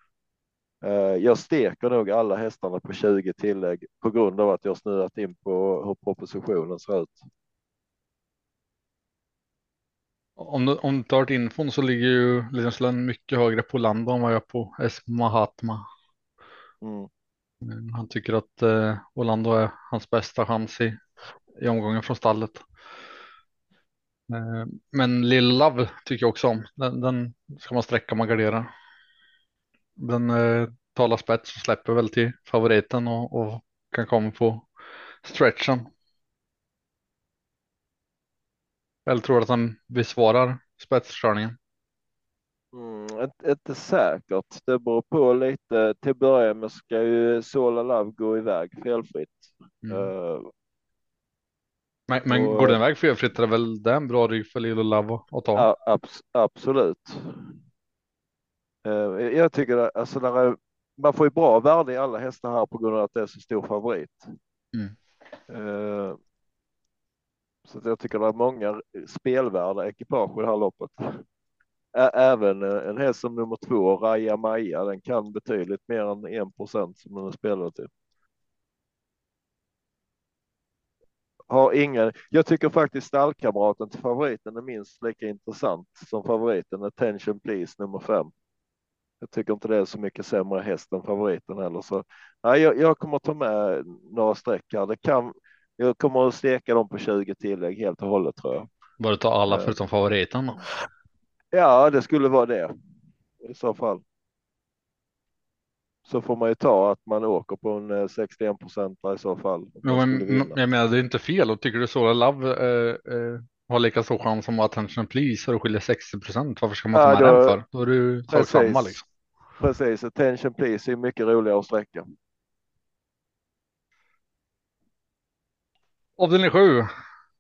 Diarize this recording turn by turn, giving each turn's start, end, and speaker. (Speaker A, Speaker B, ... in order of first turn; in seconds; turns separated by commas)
Speaker A: 0.8-7.3, Speaker B: 10.4-15.9, Speaker A: 16.8-17.1, Speaker B: 17.6-21.0, Speaker B: 21.6-22.7, Speaker B: 24.3-28.7, Speaker B: 30.0-34.7, Speaker B: 35.2-35.9, Speaker B: 39.1-41.6, Speaker A: 42.7-50.5, Speaker B: 49.9-50.1, Speaker B: 52.1-55.7, Speaker A: 52.3-52.8, Speaker A: 55.6-57.5, Speaker A: 58.9-64.3, Speaker A: 65.5-66.2, Speaker A: 67.7-71.2, Speaker A: 72.0-77.9, Speaker A: 81.5-88.3, Speaker A: 89.2-98.7, Speaker B: 99.0-100.6, Speaker A: 99.5-99.8, Speaker A: 101.5-102.7, Speaker A: 103.4-104.0, Speaker A: 106.1-110.6, Speaker B: 109.8-119.0, Speaker A: 116.9-117.6, Speaker A: 118.3-119.0, Speaker A: 119.6-122.1, Speaker B: 126.2-126.9